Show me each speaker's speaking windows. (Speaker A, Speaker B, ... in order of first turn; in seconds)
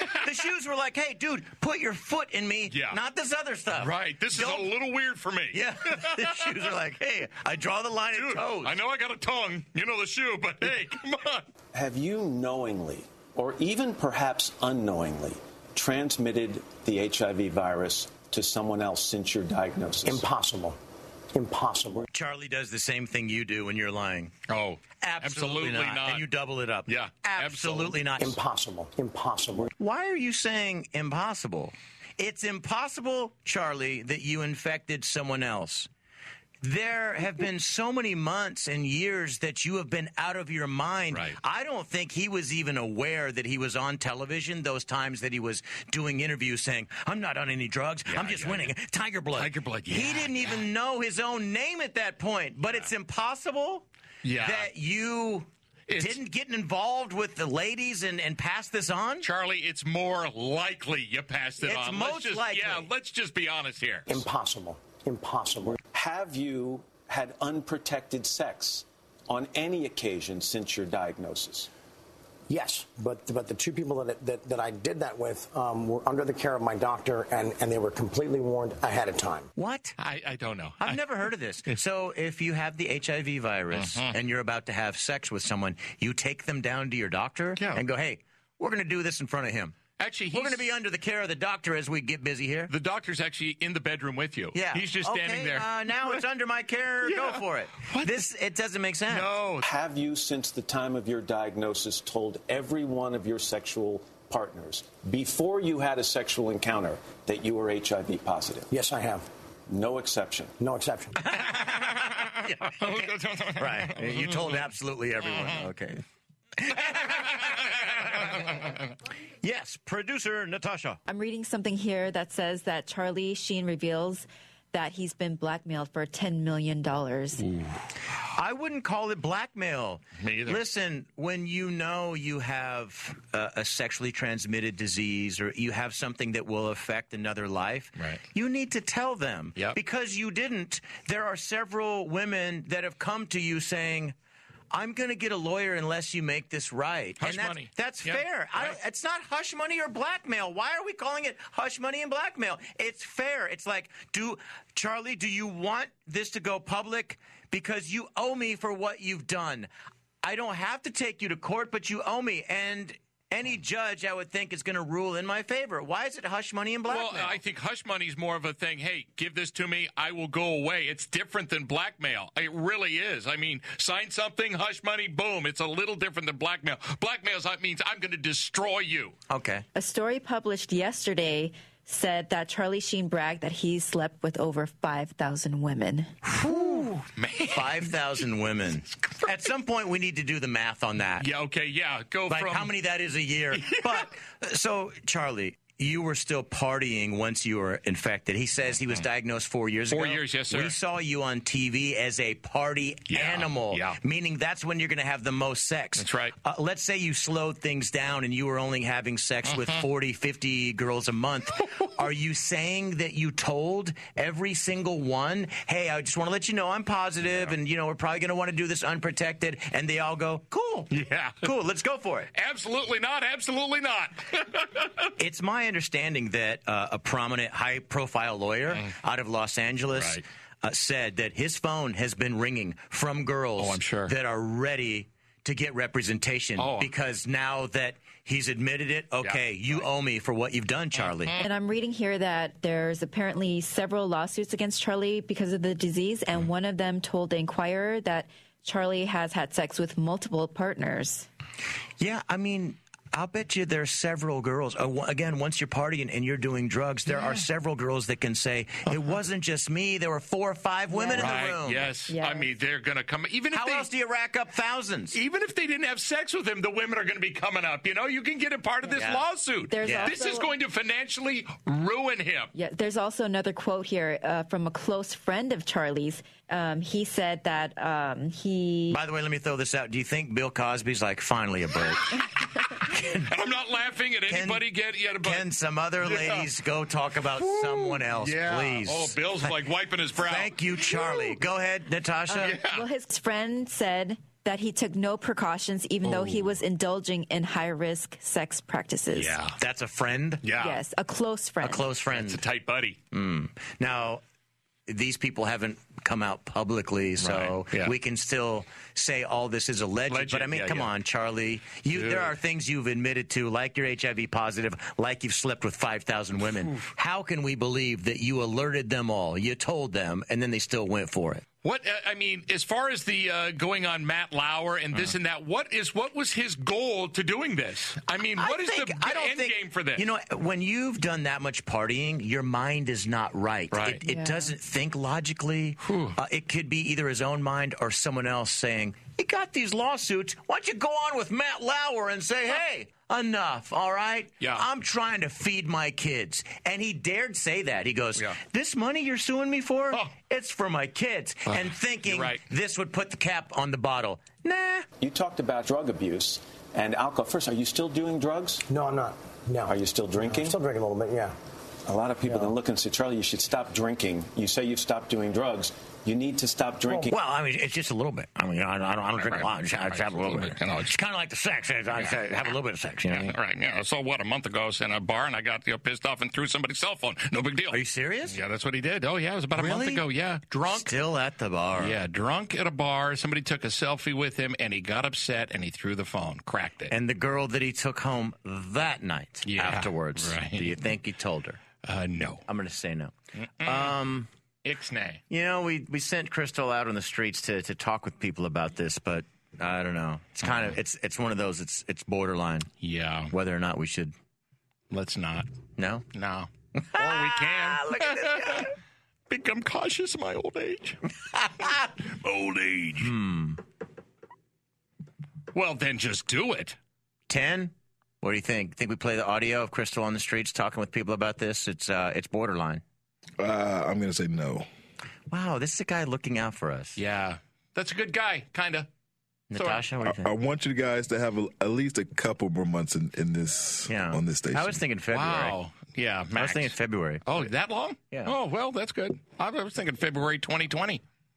Speaker A: 0.2-4.8, 5.5-8.7, 22.1-24.4, 25.0-28.4, 29.8-35.9, 36.6-53.9, 54.4-59.3, 61.6-62.9, 79.6-80.0, 80.8-89.8, 90.3-92.7, 94.5-99.3, 111.3-116.0, 116.6-118.5, 119.4-121.0, 128.3-144.2, 144.7-159.7, 160.2-167.4, 179.3-179.6, 186.2-191.3, 192.3-220.9, 221.4-222.3, 225.2-241.4, 252.0-261.9, 263.5-265.2, 268.9-269.2, 269.8-270.1, 278.9-282.2, 282.8-283.3, 284.3-284.7, 285.2-289.6, 290.2-292.6, 299.6-300.5, 301.6-302.4, 303.1-304.2, 304.9-321.4, 328.4-354.9, 367.1-373.4, 377.7-378.4, 379.6-380.0, 380.7-382.0, 386.9-391.6, 392.5-394.3, 395.3-402.7, 403.3-404.1, 405.8-406.1, 406.8-408.7, 411.4-411.9, 413.0-413.6, 417.3-422.8, 425.3-427.0, 429.5-430.3, 433.9-435.6, 436.4-437.3
Speaker B: 2.7-3.0, 3.7-6.5, 8.1-11.5, 24.5-26.2, 26.9-28.0, 41.1-41.4, 48.1-48.7, 49.3-50.7, 54.2-54.7, 55.9-56.2, 59.2-64.2, 80.0-81.0, 83.7-84.1, 87.6-87.8, 90.0-90.6, 92.7-96.2, 97.0-98.2, 99.1-99.7, 112.1-114.7, 115.3-115.6, 116.9-118.8, 127.4-127.7, 130.2-130.6, 147.2-148.8, 166.9-179.2, 187.2-187.9, 191.2-192.7, 193.6-194.1, 199.9-200.7, 203.1-204.0, 206.0-206.3, 209.5-209.8, 220.9-221.5, 222.3-225.1, 229.9-230.2, 233.6-234.1, 236.6-236.9, 239.2-239.8, 241.0-241.4, 261.1-263.9, 265.1-272.5, 283.1-285.5, 286.0-286.5, 287.4-290.6, 292.4-292.9, 296.1-296.4, 299.1-299.6, 300.4-300.8, 302.1-303.0, 307.2-307.9, 310.1-310.9, 311.9-312.4, 316.6-316.9, 321.6-330.1, 333.7-334.0, 335.8-336.2, 351.5-352.4, 369.2-370.9, 371.9-372.2, 373.1-380.9, 381.8-386.9, 389.5-390.7, 391.8-392.4, 393.6-394.0, 394.6-395.2, 402.8-403.3, 404.9-405.5, 406.1-408.7, 409.3-411.0, 412.1-413.1, 415.5-416.8, 427.0-428.9, 429.6-429.8, 435.1-436.8, 437.3-441.0
Speaker C: 11.7-20.2, 65.7-71.7, 99.6-108.7, 109.7-110.5, 355.0-358.6, 359.7-360.6, 361.9-367.1
Speaker D: 20.1-20.8, 21.3-22.1, 28.2-29.7, 64.1-65.7, 72.5-79.5, 108.7-109.3, 110.6-111.2, 358.7-361.3
Speaker E: 121.1-127.5, 179.8-186.1, 241.4-251.3, 260.9-261.3, 262.1-262.5, 269.7-270.5, 272.5-279.0, 292.3-299.4, 300.6-301.8, 334.1-334.5
Speaker F: 423.4-424.7, 430.1-434.8